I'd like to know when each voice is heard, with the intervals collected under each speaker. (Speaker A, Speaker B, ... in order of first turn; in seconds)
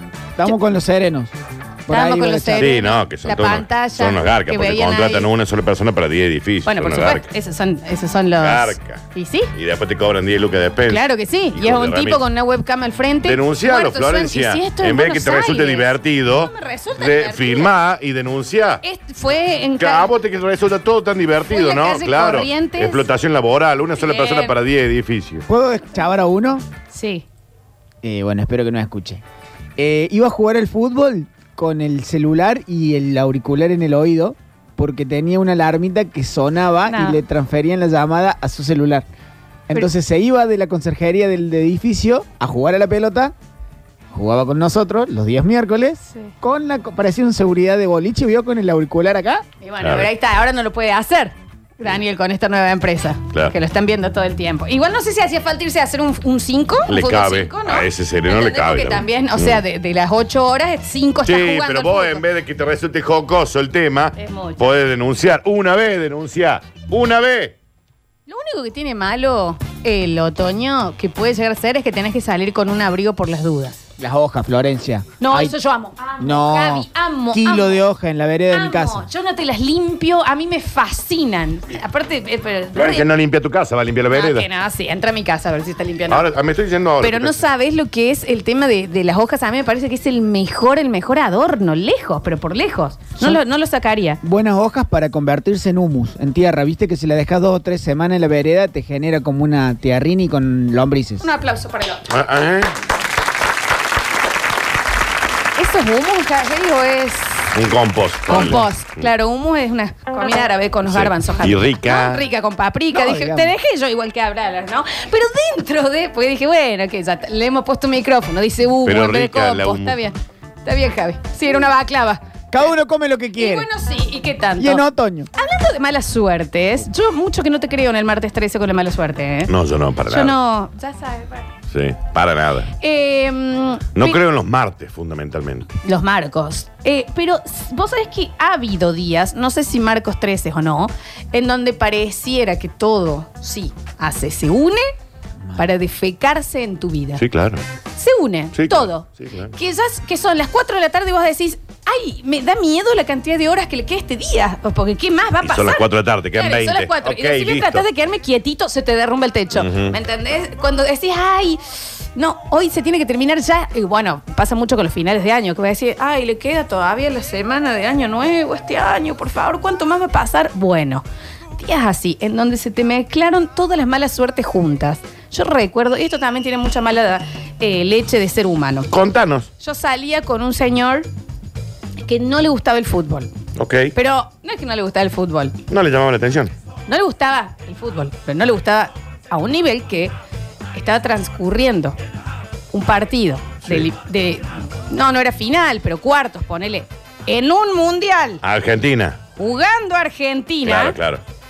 Speaker A: 0.4-1.3, 1.9-2.8, 25.5-26.6, 28.0-29.2, 29.8-39.1, 39.7-43.3, 44.1-49.5, 74.0-75.6, 76.2-79.0, 94.2-101.2, 108.3-108.7, 112.9-113.5, 122.5-123.7, 124.6-125.3
Speaker B: 1.9-5.3, 6.7-9.5, 10.9-17.7, 18.8-20.1, 21.5-23.0, 24.0-24.6, 26.9-27.2, 36.9-37.2, 49.6-62.2, 64.2-64.7, 68.3-73.8, 75.2-77.8, 78.5-83.1, 84.1-86.3, 87.0-94.2, 101.2-102.1, 105.6-107.6, 108.3-122.2, 123.4-129.5, 130.1-131.5, 132.8-134.2, 135.8-144.8, 145.6-147.2, 148.0-171.0, 171.6-178.9, 179.6-181.1, 182.0-183.3, 183.9-185.6, 186.9-190.1, 190.7-192.0, 192.7-198.4, 199.4-201.0
Speaker C: 2.6-7.3, 8.4-12.2, 13.2-18.8, 19.8-25.5, 49.8-50.1, 56.9-59.6, 61.2-67.6, 82.7-84.5, 86.1-87.4, 102.1-102.8, 107.5-109.1, 110.9-112.3, 118.8-120.0, 129.5-130.4, 131.7-132.7, 133.9-135.7, 147.2-147.6, 148.5-149.5, 155.4-157.9, 159.5-160.0, 178.9-179.5, 183.6-183.9, 185.7-186.5, 198.4-199.2, 200.6-201.2